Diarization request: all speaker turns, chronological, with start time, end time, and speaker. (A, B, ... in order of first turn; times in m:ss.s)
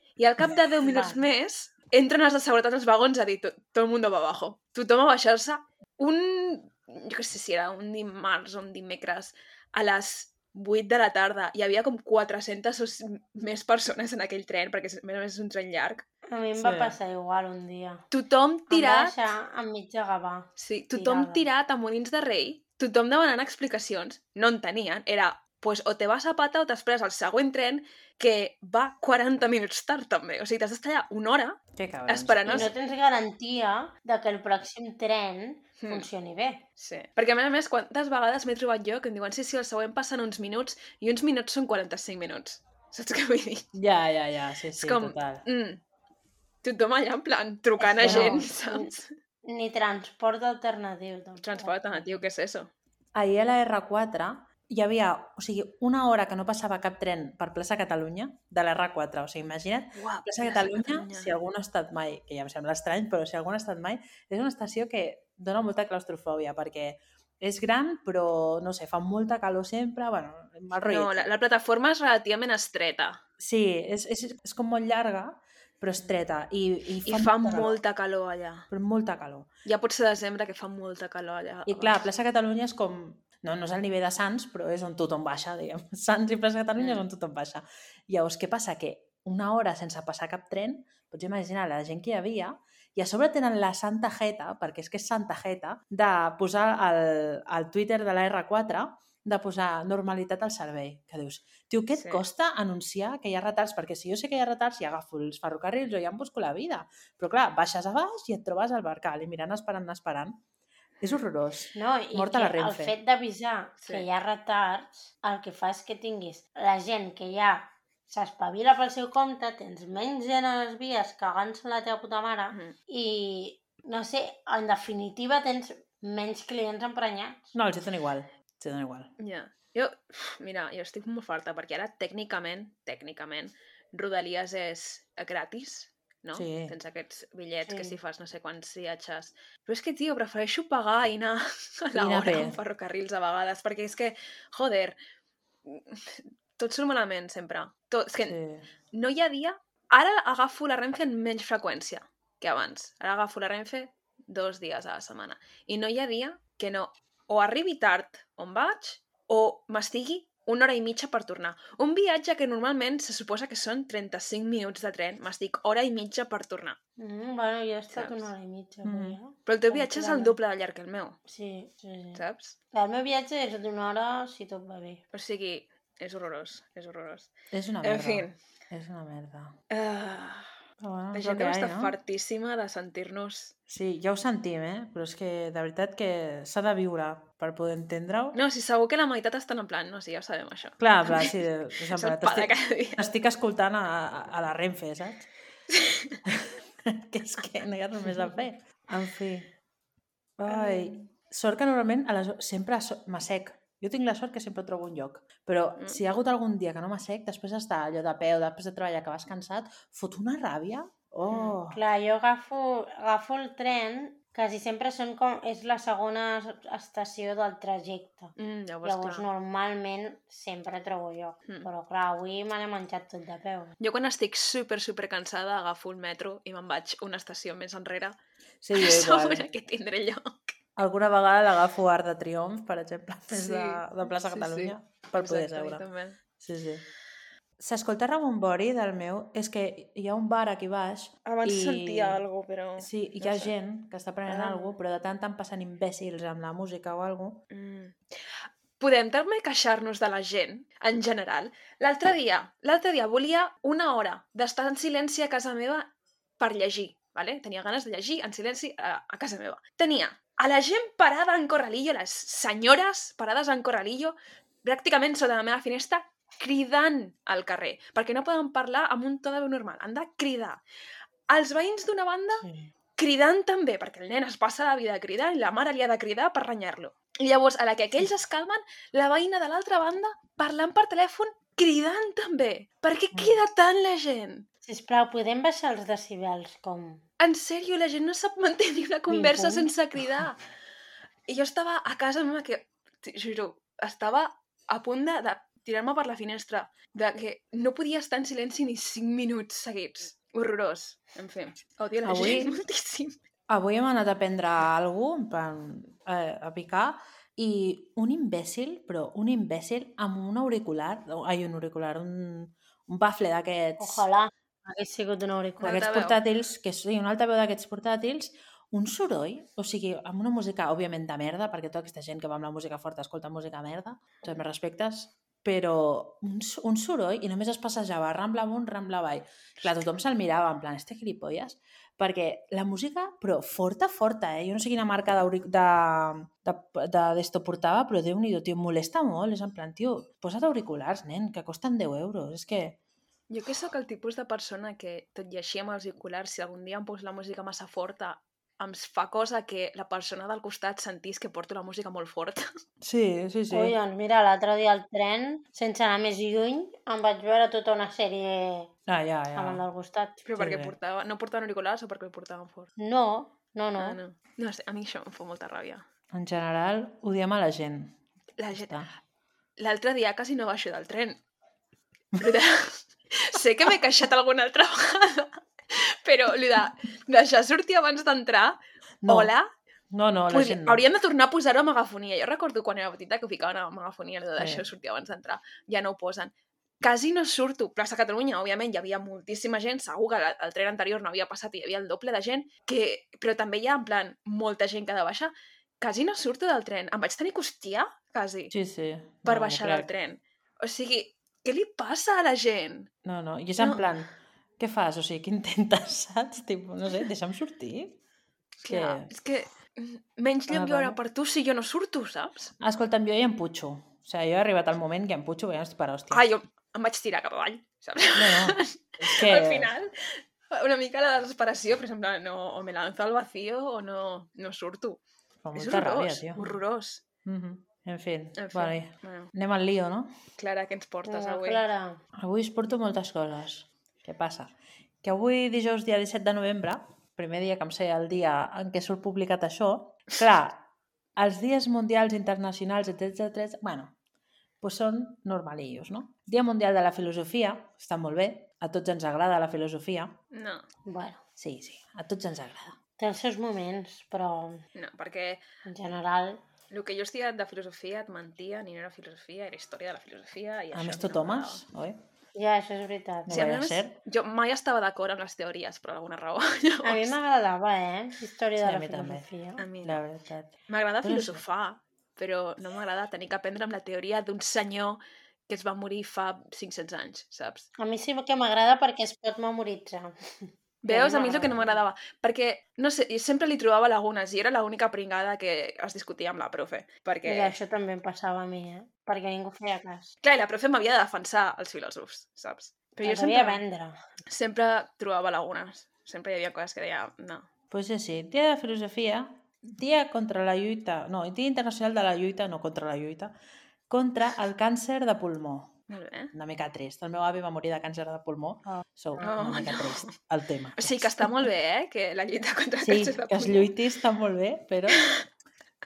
0:00.2-0:16.0 A
0:00.8-0:01.2 B
0:16.3-0:18.0 B
0:16.6-0:16.9 C
0:18.1-0:19.1 A
0:18.7-0:21.4 B
0:20.6-0:32.7 A
0:31.7-0:32.7 C
0:32.4-0:36.6 B
0:35.8-0:36.1 A
0:36.8-0:43.6 A
0:43.7-0:45.4 C
0:44.8-0:45.8 A
0:46.6-0:49.1 A
0:47.8-0:48.9 B
0:48.0-0:48.4 C
0:49.4-0:52.2 B
0:51.4-0:52.7 A
0:53.1-1:11.2 C
0:59.9-1:01.3 A
1:10.8-1:13.2 A
1:13.4-1:17.7 C
1:17.0-1:18.7 A
1:18.7-1:19.5 C
1:19.6-1:22.0 A
1:21.7-1:50.4 C
1:26.8-1:27.0 A
1:41.9-1:42.2 A
1:51.0-1:52.9 C
1:51.7-2:07.5 B
1:53.8-1:54.0 A
2:07.5-2:09.1 C
2:09.2-2:25.0 A
2:16.3-2:16.7 C
2:17.6-2:18.0 B
2:21.9-2:22.6 C
2:25.6-2:28.4 A
2:28.2-2:28.6 C
2:28.9-2:46.8 A
2:47.0-2:50.4 B
2:47.9-2:48.3 A
2:48.8-2:49.2 C
2:49.4-2:51.2 A
2:51.3-2:52.2 B
2:52.1-2:52.6 A
2:52.7-2:55.0 B
2:55.1-2:57.3 A
2:57.5-2:59.5 C
2:57.8-2:58.4 A
2:59.7-3:00.5 A
3:00.8-3:01.9 C
3:01.1-3:03.5 A
3:03.7-3:08.4 C
3:08.3-3:11.3 A
3:10.8-3:15.3 C
3:11.9-3:13.0 A
3:15.7-3:16.2 A
3:16.3-3:19.5 C
3:20.4-3:31.8 C
3:20.5-3:21.0 A
3:31.3-3:31.6 A
3:31.7-3:43.7 B
3:38.4-3:39.2 A
3:43.8-3:48.2 A
3:48.6-3:49.4 C
3:48.7-3:50.5 A
3:50.8-3:55.8 C
3:53.3-3:56.2 A
3:56.4-3:56.8 C
3:57.6-4:02.2 C
4:01.2-4:03.5 A
4:02.8-4:07.4 C
4:04.3-4:04.7 A
4:07.5-4:30.6 A
4:31.3-4:32.4 A
4:33.0-4:44.4 A
4:44.6-4:47.0 B
4:47.2-4:50.4 A
4:49.1-4:49.7 B
4:51.3-5:03.2 A
5:02.0-5:02.5 C
5:03.5-5:14.0 C
5:13.8-5:15.8 B
5:15.6-5:16.2 A
5:15.6-5:42.8 C
5:43.3-5:52.4 A
5:52.8-5:53.7 C
5:53.5-5:58.7 B
5:58.9-5:59.6 C
5:59.3-6:00.2 B
6:00.2-6:02.7 A
6:00.4-6:00.7 C
6:02.8-6:04.0 B
6:03.8-6:05.8 A
6:06.1-6:08.0 C
6:08.4-6:08.8 A
6:08.5-6:08.9 C
6:09.6-6:11.2 A
6:12.2-6:19.5 A
6:19.0-6:19.3 C
6:19.9-6:20.8 C
6:20.3-6:38.5 A
6:24.4-6:24.6 C
6:38.5-6:39.9 C
6:39.2-6:42.9 A
6:43.0-6:48.0 C
6:43.6-6:43.9 A
6:48.6-6:52.5 A
6:48.7-6:49.1 C
6:50.5-6:51.0 C
6:52.6-6:56.2 C
6:56.1-7:05.0 A
6:58.1-6:59.7 C
7:05.4-7:06.4 C
7:05.5-7:07.0 A
7:07.2-7:10.1 C
7:08.4-7:09.3 A
7:10.4-7:11.6 A
7:11.1-7:12.0 B
7:12.2-7:20.6 C
7:21.2-7:23.9 C
7:24.6-7:30.1 C
7:30.3-7:30.6 A
7:30.8-7:31.2 B
7:31.4-7:32.8 C
7:33.0-7:34.6 B
7:34.7-7:35.4 A
7:35.6-7:36.4 B
7:36.7-7:41.6 A
7:40.7-7:42.0 C
7:42.3-7:43.4 B
7:43.2-7:44.0 C
7:43.3-7:47.1 A
7:46.8-7:49.6 B
7:48.6-7:49.2 C
7:49.6-7:50.0 A
7:49.8-7:51.4 C
7:50.7-7:57.6 A
7:57.8-8:01.8 B
8:00.8-8:07.5 A
8:07.2-8:10.1 B
8:10.2-8:13.6 A
8:13.0-8:14.0 B
8:14.3-8:17.4 A
8:17.7-8:23.3 C
8:23.9-8:25.8 C
8:25.9-8:26.3 A
8:26.3-8:31.5 C
8:29.2-8:30.1 A
8:30.8-8:33.7 A
8:32.8-8:35.1 C
8:34.9-8:35.2 A